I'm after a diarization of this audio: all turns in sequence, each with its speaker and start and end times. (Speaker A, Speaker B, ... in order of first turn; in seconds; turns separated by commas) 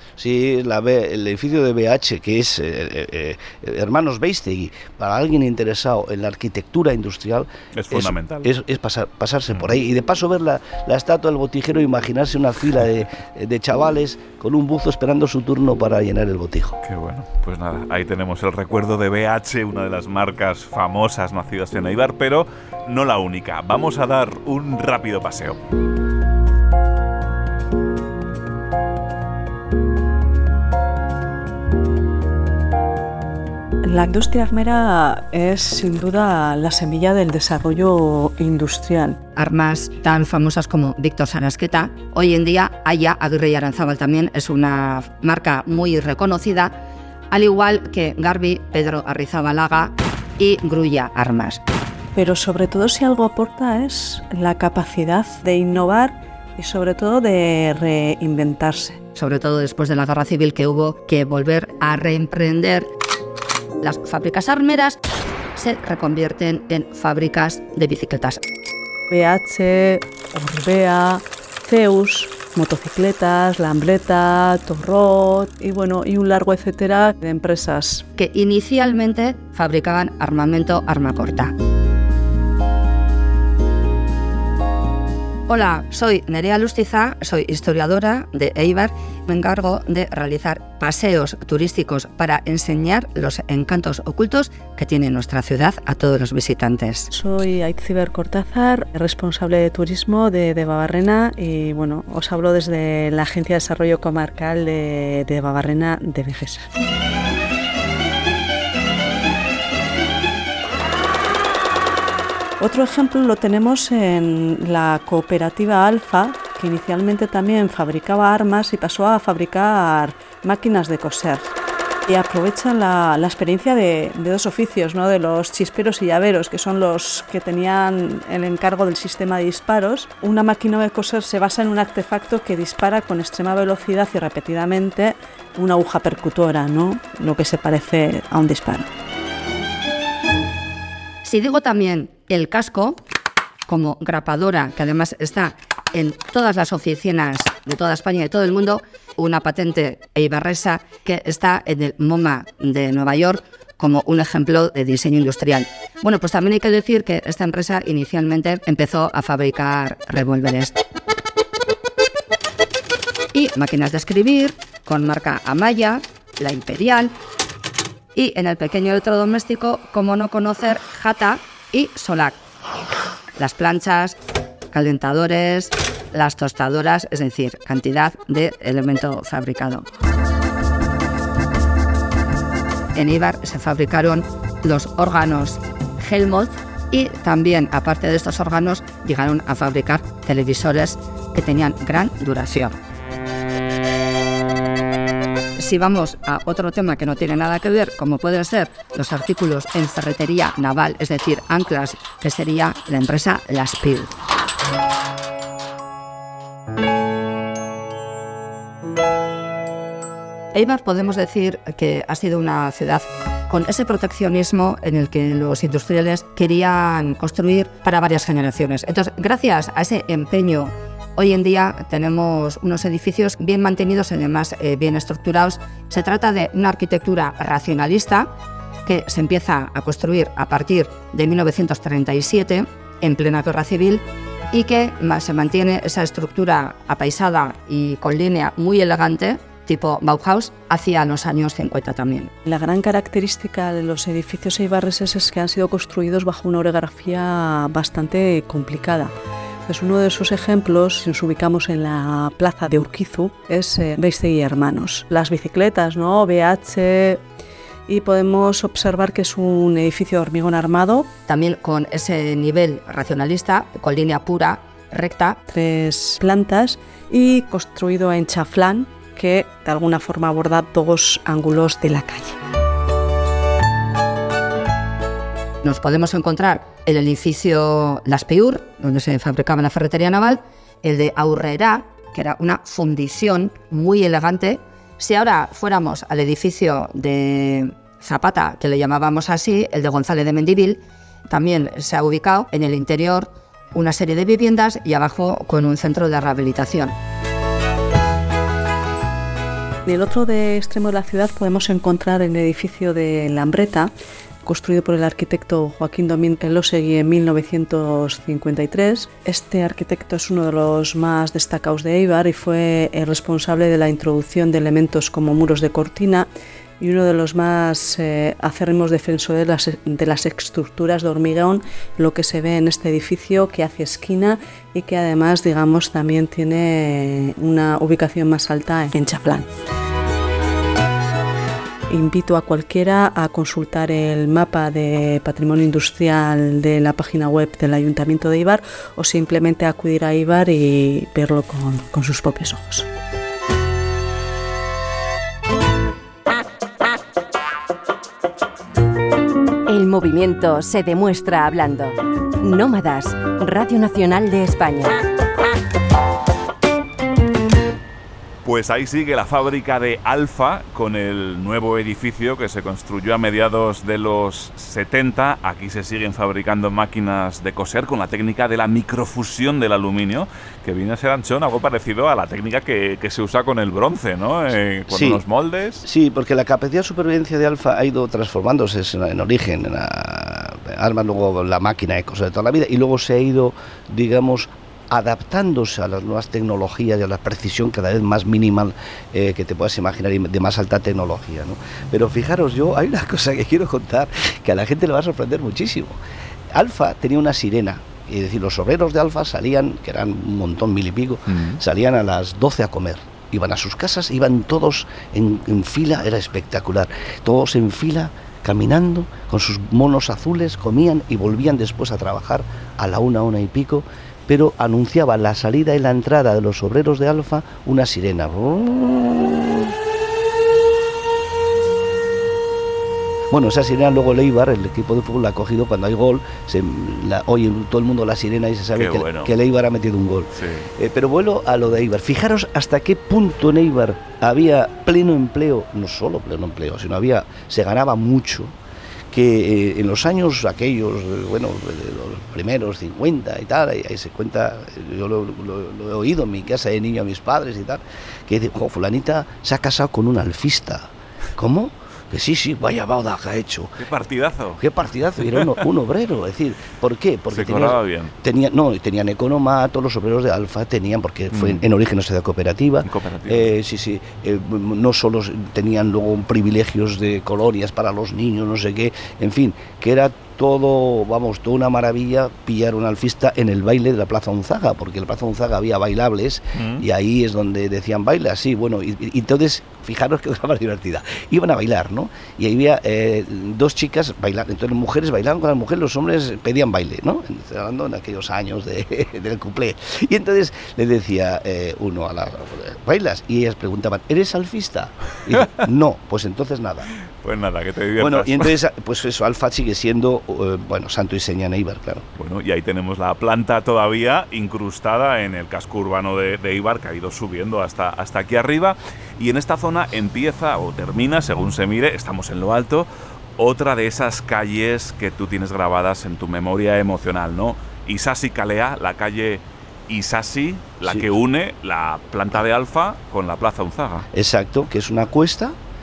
Speaker A: 0.2-16.8, Speaker B: 7.8-8.5, Speaker B: 9.5-9.8, Speaker B: 16.8-25.6, Speaker C: 33.8-39.2, Speaker D: 39.4-46.7, Speaker D: 47.3-51.6, Speaker C: 52.1-59.0, Speaker D: 59.2-62.9, Speaker D: 63.8-65.0, Speaker D: 65.6-68.4, Speaker C: 69.1-78.0, Speaker D: 78.2-81.5, Speaker D: 85.5-97.1, Speaker C: 97.1-106.7, Speaker C: 112.6-121.5, Speaker C: 122.1-138.9, Speaker D: 141.2-143.0, Speaker D: 143.7-160.8, Speaker D: 163.3-167.1, Speaker D: 168.2-172.4, Speaker D: 173.4-174.2, Speaker D: 174.7-179.9, Speaker D: 182.9-192.8, Speaker D: 195.6-204.2, Speaker D: 210.5-228.3, Speaker D: 228.8-242.3, Speaker C: 242.4-249.1, Speaker C: 249.7-257.2, Speaker C: 257.9-261.1, Speaker D: 261.3-265.4, Speaker C: 265.5-272.4, Speaker D: 275.6-296.9, Speaker C: 299.9-303.9, Speaker C: 304.4-316.3, Speaker C: 316.8-329.5, Speaker C: 331.9-342.9, Speaker E: 349.7-355.1, Speaker B: 358.4-375.9, Speaker A: 374.9-375.2, Speaker A: 375.9-396.0, Speaker A: 396.5-419.7, Speaker B: 401.3-401.6, Speaker A: 423.3-438.6, Speaker B: 428.7-429.3, Speaker B: 430.4-430.7, Speaker A: 439.1-453.8, Speaker B: 453.8-454.6, Speaker A: 454.6-496.9, Speaker B: 455.2-455.6, Speaker B: 457.3-458.1, Speaker B: 461.3-461.7, Speaker B: 462.8-463.6, Speaker B: 476.6-476.9, Speaker B: 497.2-498.5, Speaker A: 498.0-502.1, Speaker B: 502.2-524.0, Speaker A: 520.8-521.1, Speaker A: 524.1-525.6